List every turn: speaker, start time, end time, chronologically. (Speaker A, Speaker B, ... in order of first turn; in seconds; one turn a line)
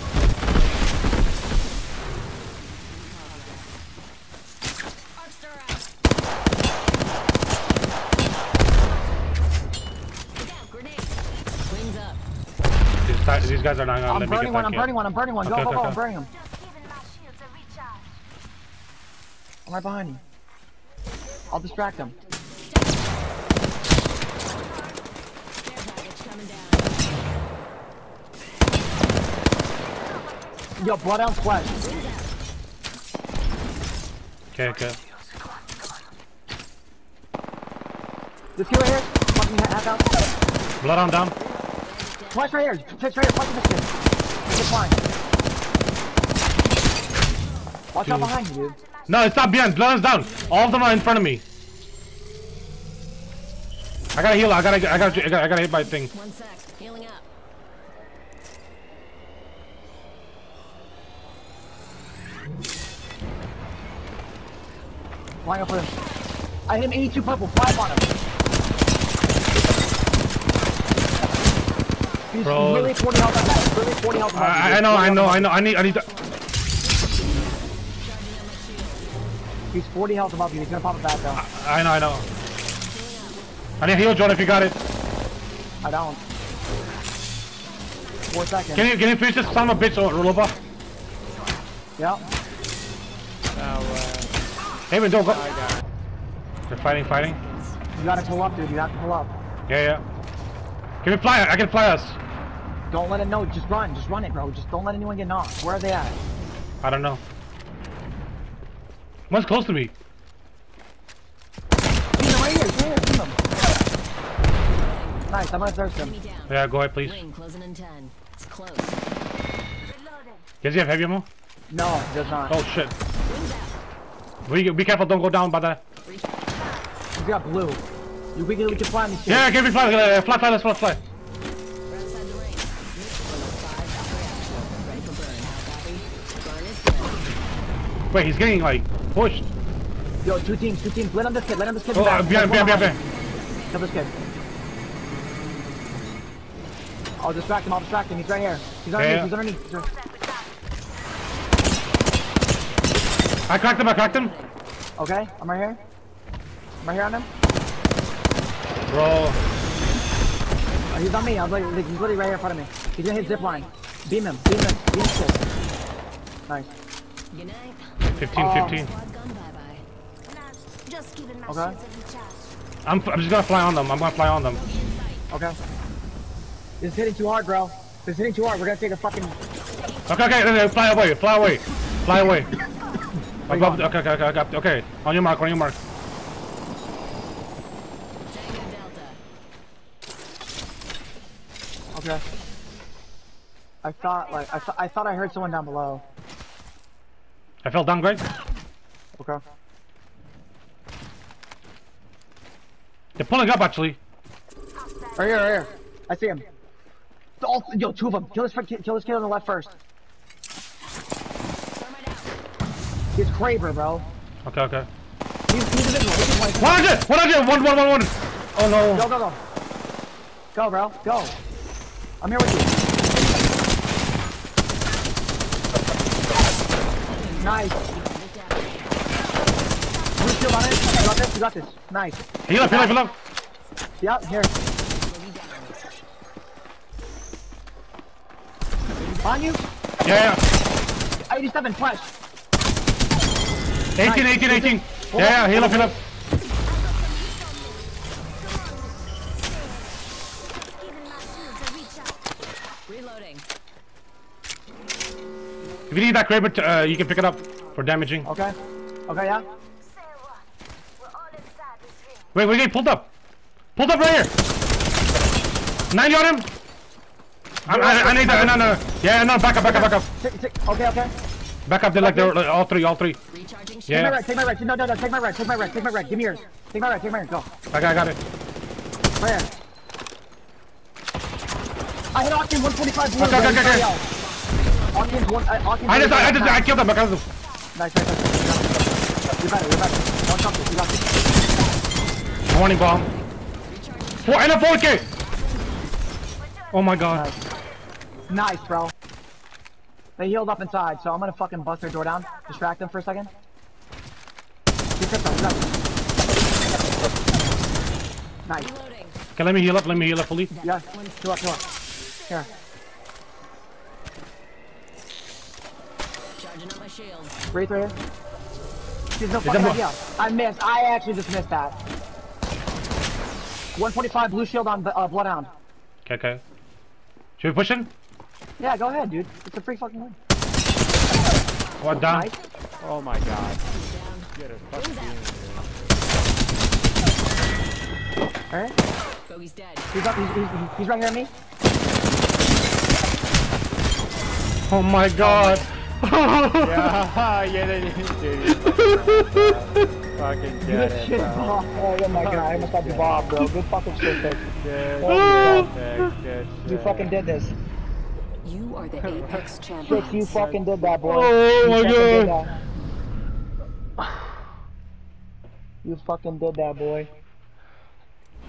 Speaker A: 5.3-5.8
Speaker A: 10.4-11.2
Speaker A: 11.7-12.2
Speaker B: 13.0-14.9
Speaker C: 14.1-16.3
Speaker B: 15.4-16.0
Speaker D: 16.4-18.0
Speaker C: 19.6-20.2
Speaker C: 21.5-22.1
Speaker A: 25.6-27.0
Speaker C: 30.8-31.8
Speaker A: 31.7-32.3
Speaker B: 34.5-35.0
Speaker C: 38.5-40.1
Speaker B: 40.8-41.3
Speaker A: 41.4-42.5
Speaker C: 42.3-43.9
Speaker C: 44.4-45.0
Speaker C: 47.9-48.8
Speaker B: 48.0-48.3
Speaker B: 49.1-51.4
Speaker A: 50.2-51.0
Speaker B: 54.1-56.1
Speaker A: 55.9-57.2
Speaker C: 65.4-65.9
Speaker C: 66.7-68.1
Speaker C: 72.3-75.5
Speaker B: 72.4-73.0
Speaker B: 74.3-76.1
Speaker A: 75.9-76.3
Speaker A: 78.0-79.0
Speaker C: 79.7-81.4
Speaker B: 81.3-82.2
Speaker A: 82.8-83.4
Speaker B: 83.8-84.8
Speaker C: 85.8-86.2
Speaker C: 88.3-88.9
Speaker B: 88.7-90.6
Speaker C: 92.0-92.2
Speaker E: 93.5-94.3
Speaker B: 94.9-95.4
Speaker E: 95.2-95.8
Speaker B: 96.7-97.4
Speaker A: 96.7-98.7
Speaker C: 98.0-99.3
Speaker B: 99.7-100.0
Speaker B: 101.0-102.2
Speaker C: 102.9-106.2
Speaker B: 106.8-107.2
Speaker B: 109.3-109.9
Speaker C: 112.2-113.4
Speaker A: 114.7-115.3
Speaker C: 115.3-116.1
Speaker A: 116.0-119.0
Speaker B: 116.5-117.2
Speaker D: 120.0-120.3
Speaker B: 120.6-121.3
Speaker C: 121.7-122.6
Speaker B: 122.5-122.9
Speaker A: 123.2-123.8
Speaker B: 124.4-125.8
Speaker C: 127.2-127.8
Speaker C: 128.3-129.5
Speaker B: 129.3-131.0
Speaker A: 131.9-137.2
Speaker B: 138.1-139.4
Speaker C: 140.2-143.0
Speaker B: 141.9-143.0
Speaker A: 142.3-143.8
Speaker C: 143.7-144.1
Speaker C: 147.2-149.9
Speaker B: 148.9-149.3
Speaker B: 153.5-154.3
Speaker A: 153.8-154.5
Speaker C: 155.0-155.8
Speaker C: 156.8-157.3
Speaker B: 158.9-159.4
Speaker C: 160.9-165.4
Speaker A: 163.1-163.7
Speaker A: 167.3-169.8
Speaker B: 168.2-168.9
Speaker C: 168.3-168.8
Speaker D: 170.3-172.5
Speaker C: 171.4-171.8
Speaker B: 172.8-174.6
Speaker A: 174.5-175.3
Speaker C: 175.3-175.6
Speaker C: 176.8-179.4
Speaker B: 180.1-182.5
Speaker C: 183.5-183.9
Speaker B: 183.5-185.8
Speaker A: 188.3-189.2
Speaker C: 191.9-192.2
Speaker C: 193.8-196.0
Speaker B: 197.6-198.2
Speaker B: 203.2-204.0
Speaker C: 205.2-206.4
Speaker C: 207.4-209.7
Speaker A: 211.7-212.3
Speaker C: 213.1-214.1
Speaker B: 214.4-214.9
Speaker C: 215.5-216.8
Speaker B: 216.6-219.1
Speaker C: 218.9-219.4
Speaker C: 220.5-221.4
Speaker C: 222.2-222.7
Speaker A: 227.2-229.0
Speaker C: 227.4-227.8
Speaker C: 230.2-232.9
Speaker B: 232.4-233.2
Speaker C: 234.0-234.5
Speaker A: 234.5-235.8
Speaker A: 239.0-239.5
Speaker C: 239.2-239.6
Speaker B: 240.0-240.4
Speaker C: 241.3-242.1
Speaker B: 243.9-246.0
Speaker C: 244.0-246.0
Speaker D: 246.8-247.7
Speaker D: 250.6-252.1
Speaker A: 252.9-253.4
Speaker B: 255.9-258.3
Speaker C: 258.2-258.5
Speaker C: 259.1-259.4
Speaker D: 260.0-260.4
Speaker D: 261.1-262.1
Speaker B: 262.3-263.1
Speaker B: 263.8-264.3
Speaker B: 265.9-266.5
Speaker C: 267.6-268.7
Speaker B: 267.6-270.1
Speaker C: 269.6-271.1
Speaker B: 271.6-273.2
Speaker C: 271.9-272.3
Speaker A: 273.3-274.1
Speaker B: 273.9-274.2
Speaker C: 273.9-277.5
Speaker B: 277.7-278.2
Speaker C: 279.2-279.5
Speaker C: 282.1-284.0
Speaker B: 283.2-283.9
Speaker A: 284.1-285.4
Speaker C: 284.9-286.7
Speaker B: 285.9-287.2
Speaker C: 287.7-291.1
Speaker B: 292.5-293.1
Speaker A: 293.1-295.7
Speaker B: 294.2-295.1
Speaker B: 296.7-297.3
Speaker C: 297.1-297.4
Speaker C: 298.3-298.9
Speaker C: 300.2-303.3
Speaker C: 305.0-305.7
Speaker C: 308.4-308.7
Speaker A: 308.6-309.2
Speaker B: 309.4-310.5
Speaker C: 310.6-311.6
Speaker A: 316.4-317.3
Speaker C: 317.5-317.9
Speaker C: 319.2-321.8
Speaker B: 319.4-319.8
Speaker C: 323.7-325.5
Speaker B: 326.0-326.4
Speaker B: 327.4-327.9
Speaker C: 328.6-330.1
Speaker B: 331.8-332.3
Speaker C: 332.1-332.4
Speaker E: 332.8-333.7
Speaker A: 333.7-335.2
Speaker E: 334.3-335.9
Speaker A: 339.3-339.9
Speaker C: 339.9-341.3
Speaker B: 344.7-346.9
Speaker C: 345.2-345.6
Speaker E: 346.6-353.3
Speaker B: 348.6-349.5
Speaker C: 350.6-354.4
Speaker E: 354.6-357.1
Speaker C: 355.0-355.7
Speaker B: 355.0-356.1
Speaker C: 356.6-357.6
Speaker F: 358.4-360.4
Speaker E: 359.0-359.5
Speaker C: 359.8-362.5
Speaker E: 360.1-360.9
Speaker B: 361.0-362.4
Speaker C: 365.8-367.1